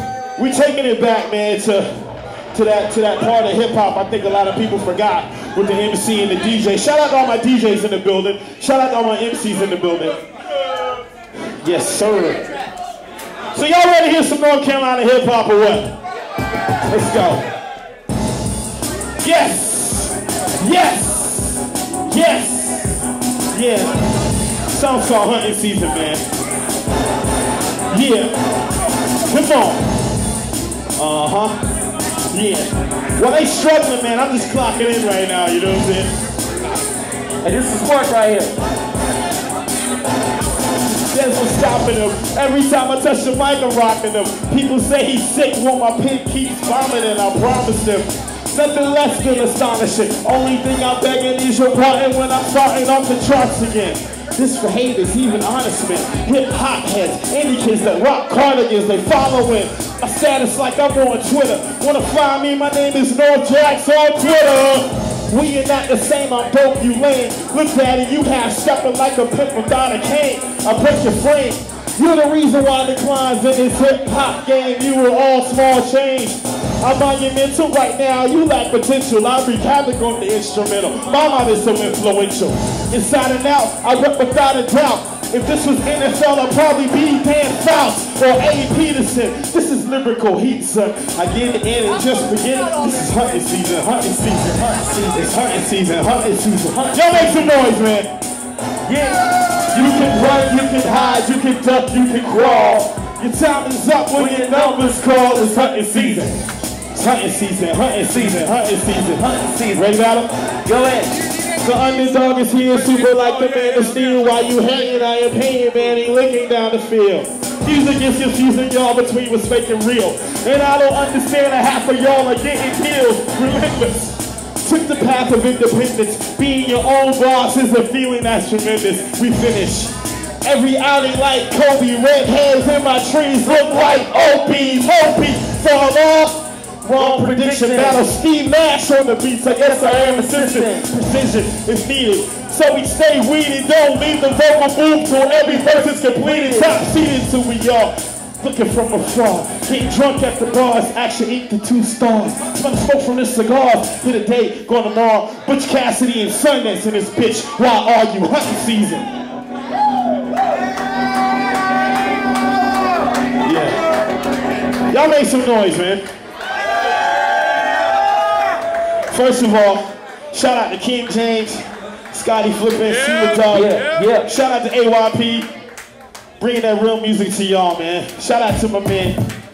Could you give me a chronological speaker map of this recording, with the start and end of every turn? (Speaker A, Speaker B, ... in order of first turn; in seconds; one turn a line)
Speaker A: 0.4-10.2
Speaker A: 11.6-12.4
Speaker A: 13.5-16.0
Speaker A: 16.9-17.4
Speaker A: 19.2-23.0
Speaker A: 23.5-24.0
Speaker A: 24.7-26.2
Speaker A: 27.9-28.4
Speaker A: 29.2-29.8
Speaker A: 31.0-31.6
Speaker A: 32.3-36.1
Speaker B: 37.4-38.5
Speaker A: 40.8-98.1
Speaker B: 94.8-95.2
Speaker B: 96.5-97.5
Speaker B: 98.9-99.3
Speaker A: 99.5-110.3
Speaker B: 104.1-106.3
Speaker B: 108.1-109.9
Speaker B: 110.7-111.2
Speaker A: 111.5-159.1
Speaker B: 136.9-138.0
Speaker B: 139.5-140.9
Speaker B: 146.0-146.8
Speaker A: 163.4-163.8
Speaker A: 164.9-166.1
Speaker A: 169.1-175.5
Speaker B: 173.5-174.3
Speaker A: 176.4-179.2